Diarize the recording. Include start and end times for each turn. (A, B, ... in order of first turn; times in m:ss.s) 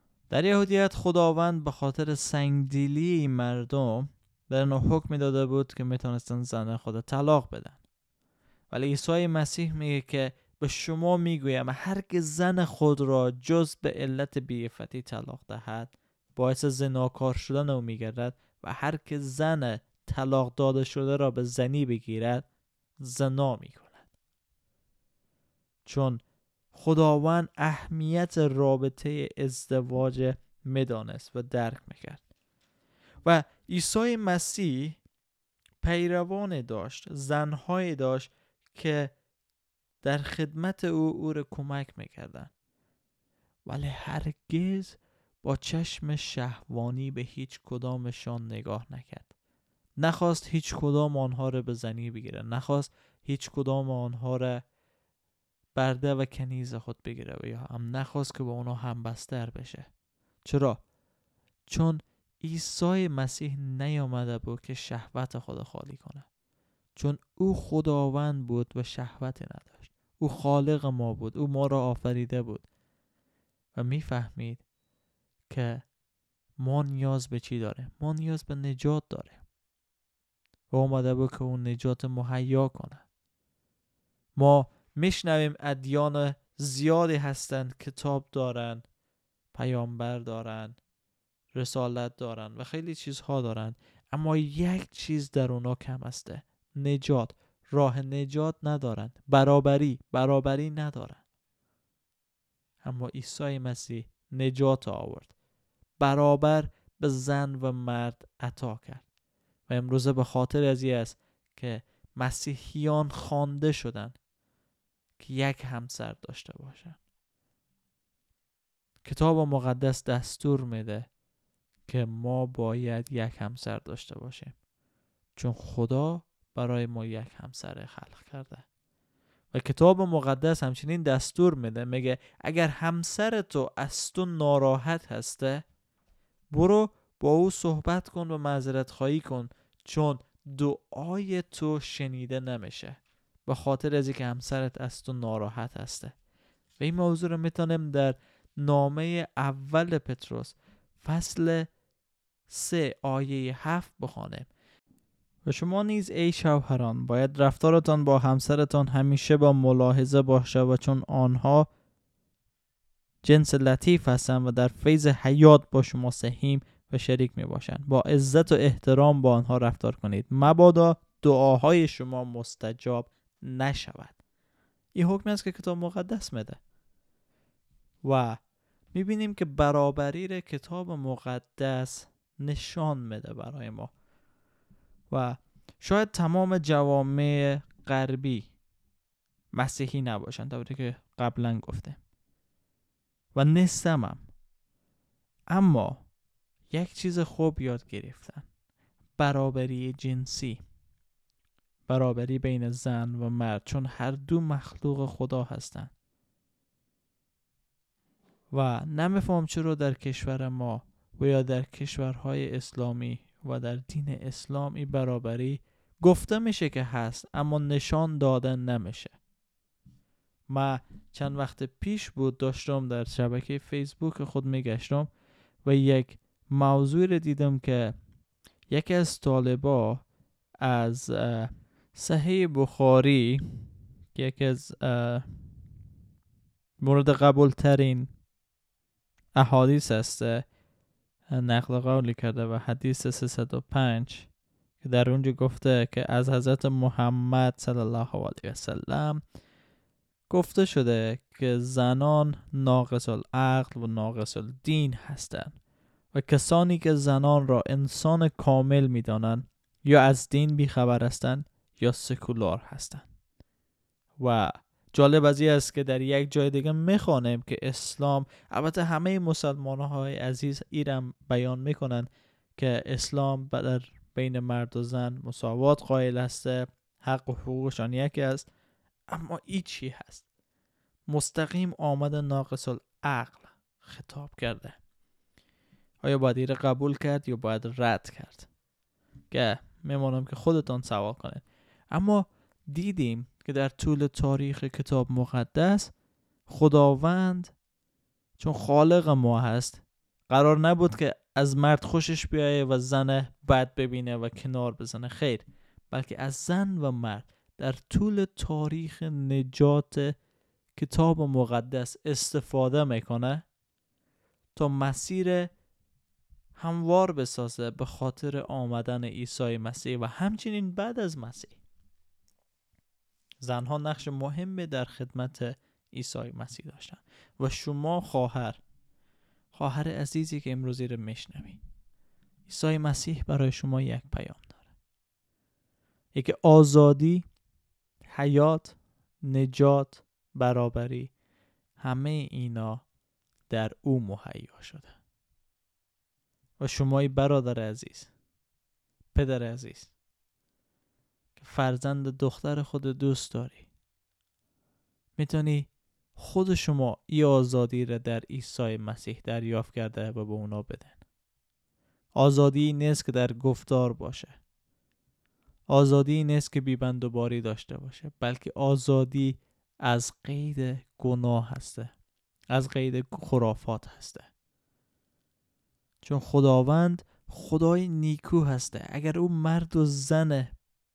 0:00.3-0:07.8 A
0:08.7-0:22.5 A
0:23.0-0:24.1 A
0:25.8-0:26.2 A
0:26.7-0:32.2 A
0:33.2-0:35.0 A
0:35.8-0:39.1 A
0:40.0-0:42.5 A
0:43.7-0:49.3 A
0:50.0-0:54.6 A
0:55.8-0:59.9 A
1:00.5-1:00.8 A
1:01.7-1:06.3 A
1:07.0-1:12.7 A
1:13.8-1:14.6 A
1:15.5-1:15.8 A
1:16.6-1:19.4 A
1:20.7-1:23.0 A
1:24.4-1:28.8 A
1:29.5-1:30.8 A
1:31.5-1:41.2 A
1:42.8-1:45.3 A
1:46.0-1:49.0 A
1:49.7-1:54.2 A
1:55.2-1:57.0 A
1:59.0-2:01.1 A
2:01.9-2:04.6 A
2:05.4-2:08.6 A
2:09.5-2:15.6 A
2:16.5-2:26.1 A
2:26.8-2:31.7 A
2:32.5-2:34.5 A
2:35.4-2:41.7 A
2:43.2-2:54.2 A
2:55.0-2:56.6 A
2:58.0-2:58.4 A
2:58.9-3:03.9 A
3:05.1-3:08.5 A
3:09.5-3:12.0 A
3:13.4-3:14.3 A
3:15.5-3:16.1 A
3:16.7-3:18.5 A
3:19.2-3:20.6 A
3:21.9-3:25.9 A
3:28.5-3:39.2 A
3:40.5-3:45.1 A
3:45.6-3:48.0 A
3:48.7-3:50.0 A
3:50.6-3:53.6 A
3:54.2-3:55.2 A
3:56.8-3:58.1 A
3:59.4-4:00.4 A
4:01.3-4:04.3 A
4:04.8-4:09.2 A
4:10.3-4:15.6 A
4:16.1-4:23.1 A
4:24.2-4:38.5 A
4:39.1-4:40.2 A
4:41.1-4:44.8 A
4:46.0-4:48.5 A
4:49.3-4:55.9 A
4:56.5-4:57.5 A
4:58.4-5:10.1 A
5:10.8-5:13.4 A
5:14.6-5:15.5 A
5:16.6-5:21.6 A
5:23.4-5:28.6 A
5:29.5-5:31.6 A
5:32.5-5:34.6 A
5:36.2-5:37.3 A
5:38.1-5:41.1 A
5:41.8-5:42.8 A
5:43.5-5:45.0 A
5:46.6-5:48.1 A
5:49.1-5:49.9 A
5:51.4-5:53.7 A
5:55.2-6:01.0 A
6:02.2-6:04.4 A
6:05.7-6:11.9 A
6:12.5-6:14.3 A
6:16.0-6:20.5 A